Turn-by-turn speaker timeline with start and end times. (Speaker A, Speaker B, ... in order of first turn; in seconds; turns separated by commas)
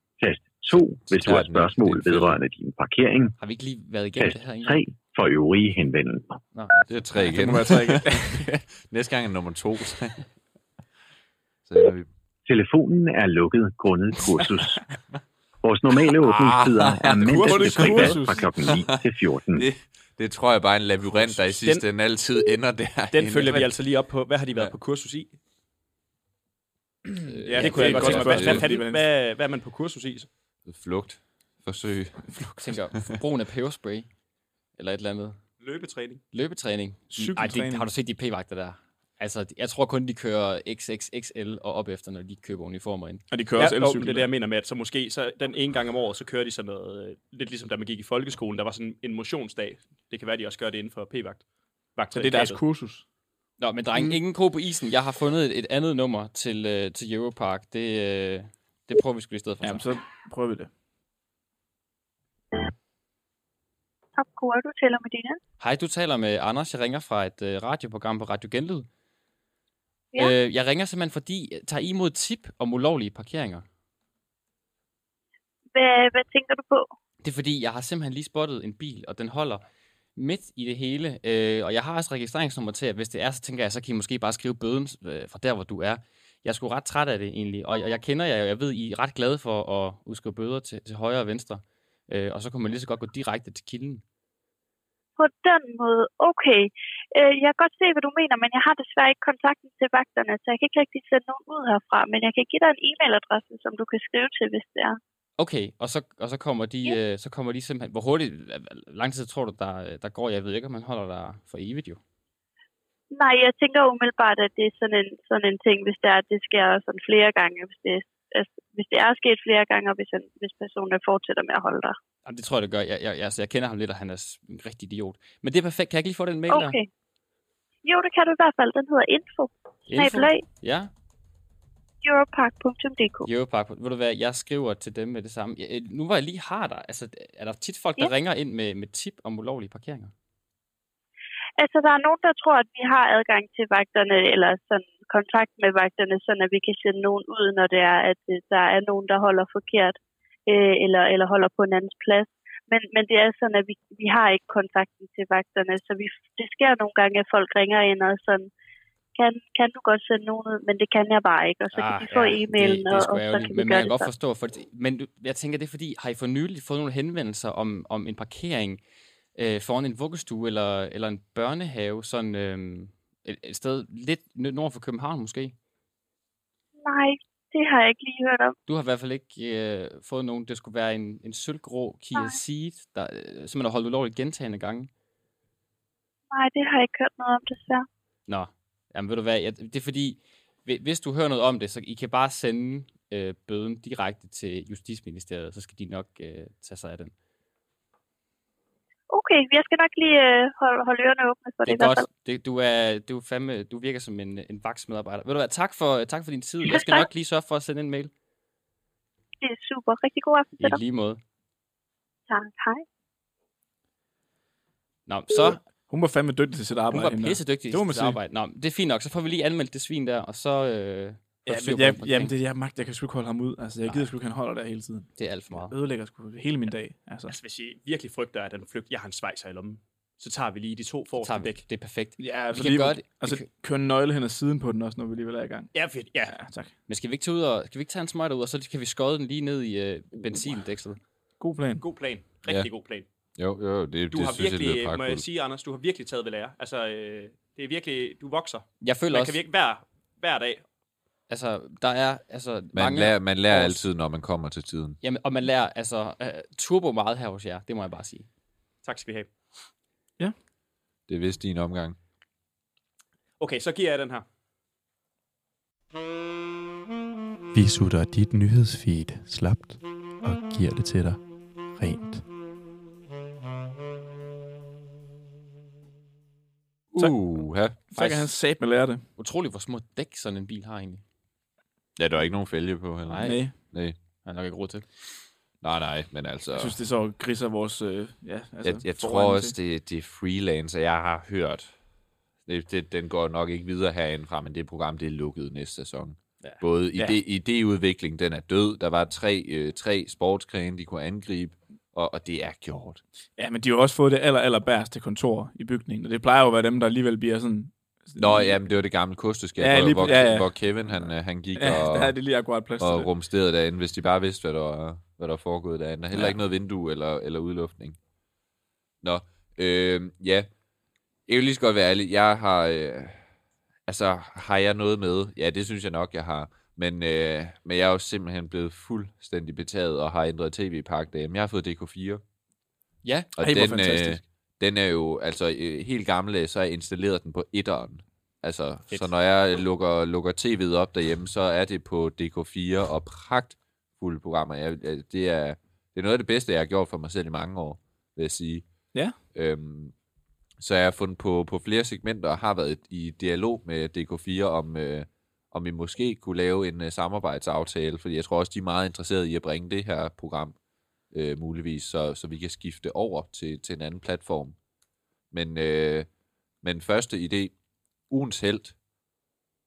Speaker A: 0.2-3.4, Speaker B: 0.7-2.4, Speaker C: 3.4-4.8, Speaker A: 4.2-6.4, Speaker C: 6.5-7.3, Speaker B: 6.9-10.2, Speaker D: 7.2-8.4, Speaker B: 11.7-12.1, Speaker A: 12.5-14.8, Speaker A: 15.6-19.7, Speaker B: 16.2-19.0, Speaker D: 17.2-18.4, Speaker B: 19.5-23.6, Speaker E: 21.5-21.9, Speaker E: 23.1-25.4, Speaker C: 27.4-28.4, Speaker D: 27.5-29.1, Speaker E: 27.5-30.3, Speaker B: 27.7-28.6, Speaker B: 30.7-32.8, Speaker C: 32.6-34.1, Speaker C: 34.8-35.4, Speaker E: 35.6-36.2, Speaker C: 36.3-43.2, Speaker D: 37.1-37.9, Speaker D: 43.3-44.3, Speaker E: 43.6-51.5, Speaker E: 52.0-52.6, Speaker D: 52.1-53.0, Speaker C: 53.6-59.9, Speaker D: 59.6-60.7, Speaker F: 64.2-65.4, Speaker C: 65.6-68.9, Speaker C: 70.2-73.7, Speaker F: 75.8-76.9, Speaker C: 77.2-79.6, Speaker C: 80.2-94.0, Speaker F: 95.2-105.0, Speaker C: 105.4-112.0, Speaker F: 113.1-122.0, Speaker C: 122.2-126.8, Speaker F: 126.5-126.9, Speaker F: 127.8-130.4, Speaker C: 129.9-130.9, Speaker F: 132.0-133.3, Speaker C: 133.2-140.1, Speaker F: 141.6-150.0, Speaker F: 150.5-158.5, Speaker F: 159.2-164.1, Speaker C: 161.7-168.8, Speaker C: 169.3-175.6, Speaker F: 176.8-178.6, Speaker C: 178.7-184.9, Speaker F: 186.3-187.9, Speaker C: 188.3-197.1, Speaker F: 199.1-202.1, Speaker C: 201.7-208.1, Speaker F: 206.7-207.1, Speaker F: 209.4-210.8, Speaker C: 210.6-211.2, Speaker F: 212.3-212.8, Speaker C: 215.1-215.6, Speaker D: 215.9-218.2, Speaker C: 216.9-222.3, Speaker D: 221.5-227.3, Speaker C: 225.2-225.7, Speaker E: 227.3-231.7, Speaker C: 231.2-233.5, Speaker D: 232.2-235.7, Speaker E: 235.7-236.4, Speaker D: 236.3-236.7, Speaker C: 236.9-241.0, Speaker D: 241.4-241.8, Speaker E: 241.8-243.1, Speaker B: 243.4-245.2, Speaker E: 244.1-250.7, Speaker C: 248.8-249.4, Speaker C: 251.3-253.8, Speaker B: 252.7-255.0, Speaker C: 255.0-258.3, Speaker E: 258.8-259.3, Speaker B: 261.1-262.0, Speaker E: 263.4-264.2, Speaker G: 267.5-271.2, Speaker G: 271.8-272.2, Speaker B: 276.9-277.8, Speaker D: 277.9-279.0, Speaker C: 277.9-278.3, Speaker C: 279.2-281.0, Speaker B: 282.0-284.0, Speaker C: 283.1-283.4, Speaker D: 283.2-283.5, Speaker C: 284.2-284.9, Speaker B: 285.6-286.8, Speaker D: 286.6-289.5, Speaker B: 288.6-291.7, Speaker B: 292.5-303.0, Speaker D: 303.4-308.6, Speaker B: 308.2-312.2, Speaker D: 309.6-310.5, Speaker D: 311.6-313.1, Speaker B: 312.8-318.0, Speaker B: 319.0-320.5, Speaker B: 321.3-323.2, Speaker B: 323.9-332.2, Speaker C: 333.0-333.3, Speaker B: 333.4-348.7, Speaker D: 333.4-334.2, Speaker B: 349.3-349.9, Speaker B: 350.6-360.6, Speaker B: 361.1-364.6, Speaker B: 365.3-366.1, Speaker B: 366.6-367.5, Speaker B: 368.1-368.8